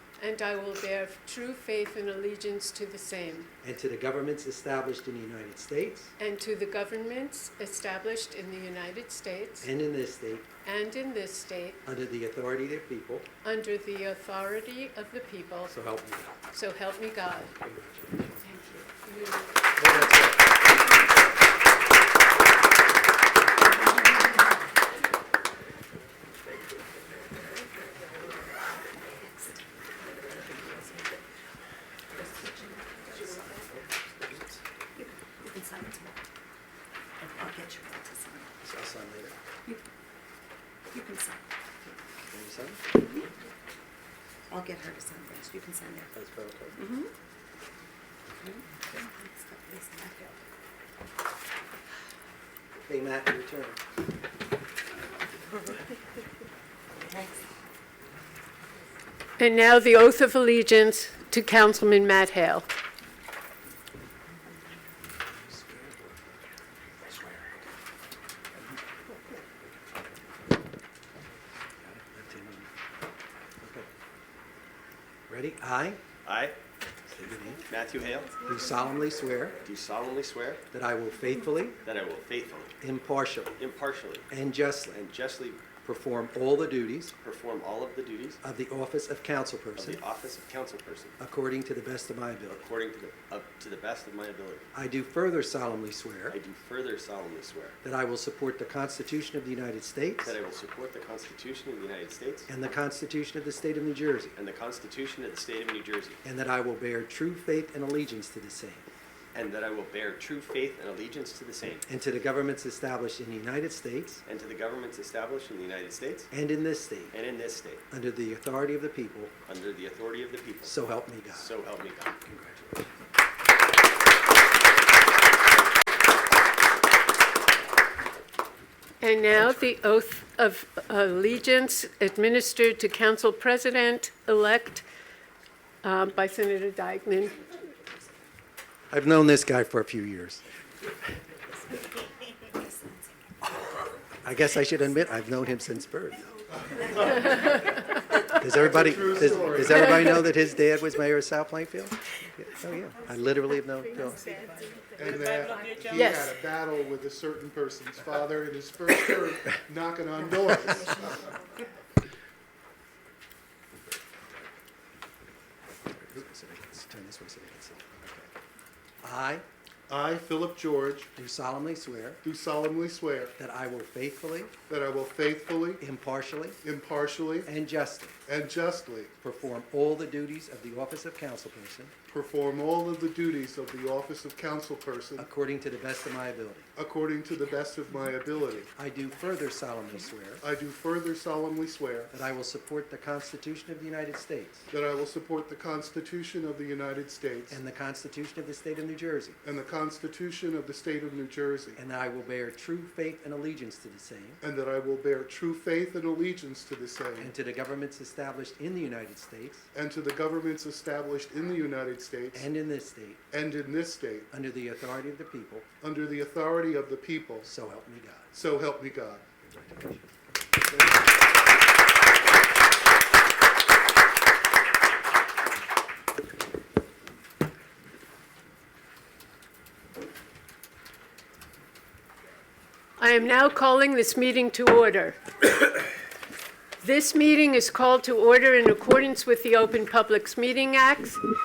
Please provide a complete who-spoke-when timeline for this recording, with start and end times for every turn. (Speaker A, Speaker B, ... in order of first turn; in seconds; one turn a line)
Speaker A: 0.2-3.5
Speaker B: 3.6-6.1
Speaker A: 6.2-9.7
Speaker B: 9.6-10.5
Speaker A: 10.6-11.8
Speaker B: 11.9-13.3
Speaker A: 13.4-15.8
Speaker B: 15.7-16.4
Speaker A: 16.5-17.6
Speaker B: 17.6-18.4
Speaker A: 18.4-19.5
Speaker B: 19.8-20.5
Speaker C: 29.0-31.2
Speaker C: 32.1-33.6
Speaker B: 33.2-34.6
Speaker C: 35.0-36.2
Speaker C: 37.2-38.5
Speaker B: 38.6-39.4
Speaker C: 40.9-41.4
Speaker B: 42.3-42.8
Speaker C: 44.5-46.1
Speaker B: 46.1-46.8
Speaker C: 46.8-47.1
Speaker C: 48.4-50.4
Speaker B: 52.8-53.8
Speaker A: 59.4-62.7
Speaker B: 65.5-66.1
Speaker B: 71.8-72.7
Speaker B: 73.6-73.9
Speaker B: 75.3-76.0
Speaker D: 76.2-76.6
Speaker B: 77.1-77.7
Speaker D: 77.7-78.4
Speaker B: 78.4-79.6
Speaker D: 79.6-80.6
Speaker B: 80.7-81.8
Speaker D: 81.8-82.8
Speaker B: 82.8-83.5
Speaker D: 83.6-84.3
Speaker B: 84.3-85.0
Speaker D: 84.9-85.6
Speaker B: 85.8-87.1
Speaker D: 87.2-88.4
Speaker B: 88.4-90.0
Speaker D: 89.8-91.2
Speaker B: 91.2-92.7
Speaker D: 92.6-94.7
Speaker B: 94.7-96.4
Speaker D: 96.3-97.8
Speaker B: 97.8-100.3
Speaker D: 100.2-102.5
Speaker B: 102.5-104.3
Speaker D: 104.4-106.2
Speaker B: 106.2-108.8
Speaker D: 109.3-111.9
Speaker B: 111.9-114.2
Speaker D: 114.3-116.3
Speaker B: 116.3-117.2
Speaker D: 117.1-117.8
Speaker B: 117.9-119.3
Speaker D: 119.5-120.7
Speaker B: 120.6-121.6
Speaker D: 121.3-122.2
Speaker B: 122.2-122.9
Speaker A: 129.0-134.9
Speaker A: 135.8-137.4
Speaker B: 138.9-140.4
Speaker B: 144.2-146.3
Speaker E: 146.7-147.4
Speaker B: 148.3-154.3
Speaker E: 148.5-150.2
Speaker E: 155.0-161.3
Speaker A: 155.9-156.3
Speaker B: 166.0-168.3
Speaker B: 169.0-169.4
Speaker E: 169.9-171.1
Speaker B: 171.2-172.2
Speaker E: 172.2-173.4
Speaker B: 173.4-174.5
Speaker E: 174.7-175.8
Speaker B: 175.8-176.6
Speaker E: 176.6-177.5
Speaker B: 177.4-178.2
Speaker E: 178.3-179.1
Speaker B: 179.2-181.9
Speaker E: 182.1-185.3
Speaker B: 185.2-186.7
Speaker E: 186.8-188.7
Speaker B: 188.8-190.4
Speaker E: 190.4-192.3
Speaker B: 192.1-194.7
Speaker E: 194.7-197.6
Speaker B: 197.5-199.4
Speaker E: 199.4-201.8
Speaker B: 201.8-204.4
Speaker E: 204.4-207.3
Speaker B: 207.2-209.7
Speaker E: 209.7-212.5
Speaker B: 212.3-213.2
Speaker E: 213.3-214.3
Speaker B: 214.3-215.7
Speaker E: 215.8-217.5
Speaker B: 217.4-218.3
Speaker E: 218.3-219.2
Speaker A: 233.0-235.2
Speaker A: 236.8-241.2